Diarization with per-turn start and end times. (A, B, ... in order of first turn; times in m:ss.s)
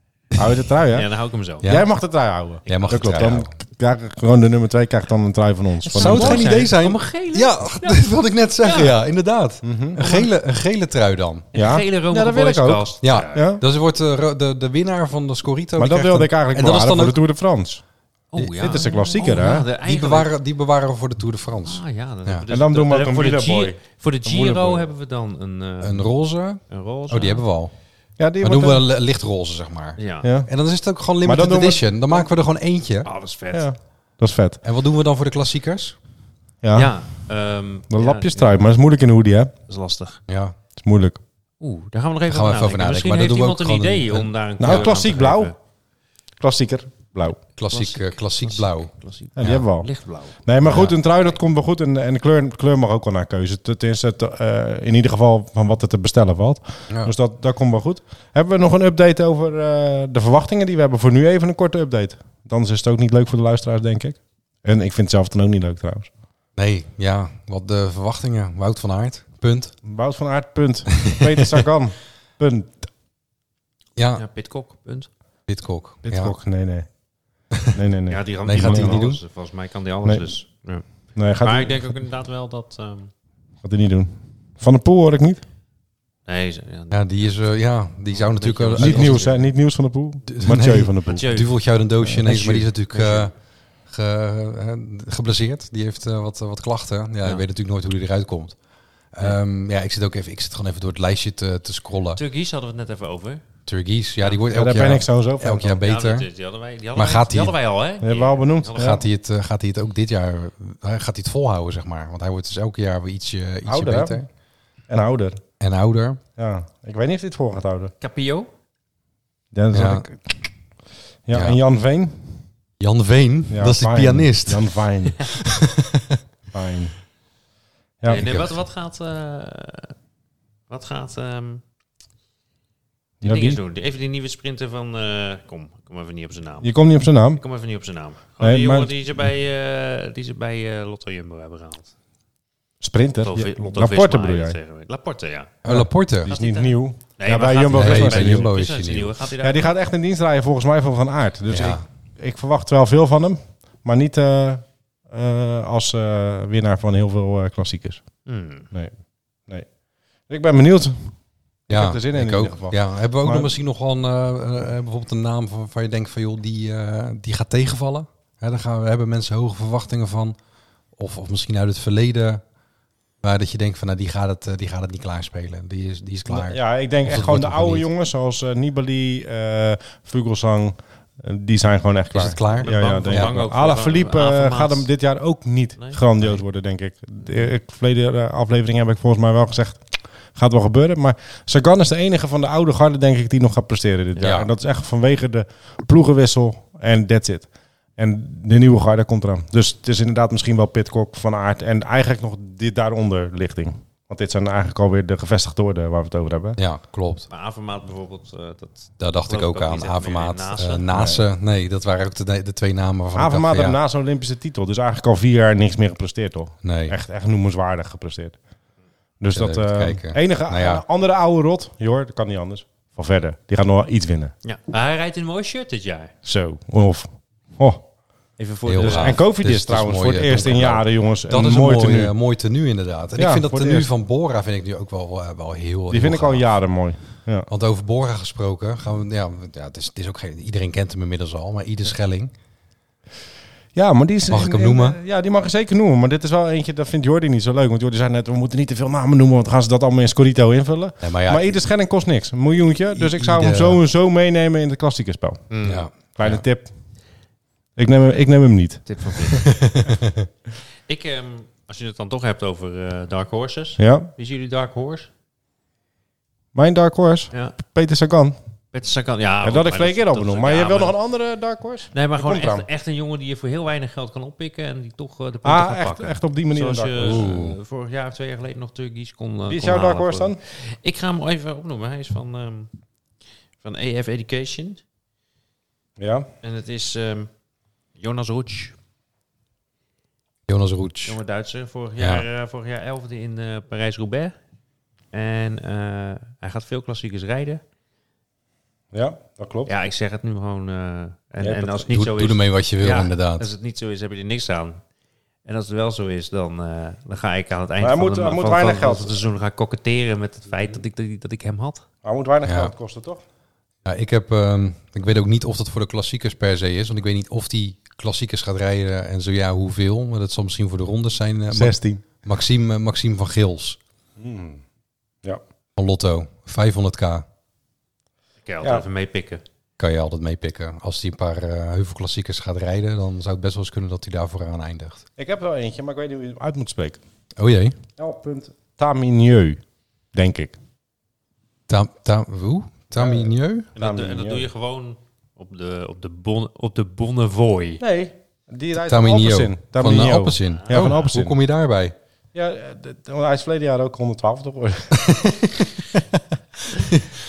0:00.4-0:01.1 A
0:00.9-0:01.7 B
0:01.6-0:01.9 C
0:01.6-0:06.6 A
0:02.7-0:03.2 B
0:02.7-0:03.5 C
0:05.8-0:08.1 B
0:06.0-0:11.5 C
0:08.6-0:09.0 B
0:09.6-0:10.0 A
0:10.0-0:10.3 B
0:11.5-0:13.4 B
0:11.5-0:13.6 A
0:13.0-0:17.2 C
0:15.8-0:17.8 A
0:18.3-0:20.3 B
0:18.6-0:19.7 A
0:19.8-0:22.4 C
0:21.6-0:26.1 B
0:22.5-0:24.9 A
0:25.8-0:27.7 C
0:26.7-0:27.4 B
0:28.2-0:28.8 A
0:28.4-0:33.1 C
0:30.0-0:30.3 B
0:30.2-0:30.5 A
0:31.2-0:32.3 A
0:33.0-0:33.7 B
0:33.5-0:34.6 A
0:34.6-0:36.0 C
0:36.6-0:37.0 A
0:36.7-0:38.7 B
0:37.9-0:39.5 A
0:39.7-0:40.2 B
0:40.3-0:40.6 C
0:40.8-0:41.2 A
0:41.6-0:45.6 B
0:42.3-0:45.0 C
0:44.6-0:45.5 A
0:46.4-0:47.4 A
0:47.6-0:49.6 C
0:47.7-0:51.4 B
0:49.4-0:49.9 A
0:50.4-1:06.1 A
0:50.6-0:50.9 C
0:56.9-0:57.1 C
1:06.6-1:09.7 C
1:09.8-1:12.9 A
1:14.0-1:14.2 C
1:14.2-1:15.1 B
1:15.5-1:16.3 C
1:16.0-1:16.9 A
1:17.6-1:19.0 A
1:18.1-1:23.1 B
1:18.4-1:19.2 C
1:21.2-1:21.9 A
1:23.6-1:25.4 A
1:26.3-1:27.4 B
1:26.9-1:29.2 C
1:28.2-1:29.5 B
1:28.8-1:31.3 A
1:30.3-1:33.3 C
1:31.0-1:31.5 B
1:32.0-1:32.7 A
1:32.9-1:33.3 B
1:33.8-1:38.6 C
1:39.1-1:42.2 C
1:42.1-1:43.4 B
1:43.7-1:46.3 C
1:44.5-1:45.8 A
1:45.8-1:49.0 B
1:47.0-1:47.6 C
1:48.0-1:49.0 A
1:48.8-1:54.3 C
1:53.7-1:54.2 A
1:54.9-1:55.4 A
1:55.6-1:56.2 C
1:56.4-1:57.9 A
1:58.0-1:58.5 B
1:59.5-2:00.2 A
1:59.7-2:00.1 C
2:01.2-2:02.4 A
2:01.3-2:01.6 C
2:02.8-2:06.2 C
2:03.5-2:05.4 A
2:06.5-2:07.0 A
2:08.1-2:08.6 C
2:08.1-2:10.0 B
2:10.7-2:11.6 B
2:13.2-2:13.6 A
2:13.2-2:16.7 B
2:16.6-2:17.4 A
2:17.3-2:21.9 B
2:18.4-2:19.0 A
2:22.8-2:24.6 A
2:23.2-2:25.5 B
2:25.6-2:26.3 C
2:25.7-2:28.5 A
2:26.3-2:29.8 B
2:27.7-2:29.2 C
2:29.4-2:38.0 A
2:31.5-2:31.8 C
2:38.3-2:38.7 B
2:40.3-2:41.2 A
2:41.7-2:43.5 A
2:41.7-2:50.4 C
2:51.0-2:52.4 C
2:53.2-2:57.9 C
2:56.3-3:09.8 A
3:02.1-3:03.4 C
3:02.6-3:04.9 B
3:05.8-3:06.4 B
3:10.4-3:26.6 A
3:14.2-3:14.5 C
3:26.6-3:27.3 C
3:27.3-3:30.9 B
3:29.0-3:33.8 C
3:30.9-3:31.3 A
3:33.2-3:38.4 A
3:36.6-3:37.0 C
3:39.2-3:44.3 A
3:39.3-3:40.8 C
3:44.4-3:46.1 B
3:46.2-3:47.8 A
3:48.4-3:49.2 B
3:48.6-3:56.5 C
3:48.8-3:52.2 A
3:53.2-3:53.9 A
3:55.9-3:57.5 A
3:57.5-4:02.3 C
4:03.7-4:15.5 A
4:04.3-4:05.0 C
4:11.0-4:11.6 C
4:12.9-4:13.8 C
4:15.5-4:15.9 B
4:15.6-4:16.4 C
4:16.0-4:16.7 A
4:17.8-4:18.9 A
4:18.9-4:19.5 B
4:19.6-4:20.2 C
4:20.9-4:25.1 B
4:23.8-4:24.1 A
4:26.6-4:28.4 A
4:27.3-4:27.6 B
4:28.7-4:31.0 B
4:29.4-4:32.7 A
4:31.9-4:42.7 B
4:35.4-4:37.3 A
4:37.0-4:37.6 C
4:39.5-4:40.4 A
4:43.6-4:44.8 B
4:46.0-4:46.3 A
4:46.4-4:47.3 B
4:48.0-4:48.8 B
4:50.5-4:51.2 C
4:51.1-4:54.3 B
4:52.0-4:52.3 C
4:55.1-4:57.6 B
4:58.9-4:59.7 A
4:59.7-5:04.8 B
5:01.4-5:01.9 A
5:01.9-5:03.5 C
5:05.4-5:11.8 B
5:07.8-5:09.2 A
5:12.0-5:13.2 A
5:12.4-5:12.7 C
5:13.8-5:23.8 C
5:21.5-5:22.0 A
5:24.2-5:24.6 A
5:25.8-5:27.2 C
5:28.5-5:29.4 B
5:29.8-5:35.0 C
5:35.2-5:37.0 A
5:37.4-5:37.8 C
5:38.0-5:39.6 A
5:40.1-5:40.6 A
5:41.7-5:43.7 C
5:42.9-5:44.5 A
5:43.8-5:47.8 B
5:47.8-5:51.4 A
5:48.8-5:52.0 C
5:50.5-5:51.0 B
5:52.3-5:55.2 A
5:55.0-5:55.7 C
5:56.8-5:57.1 C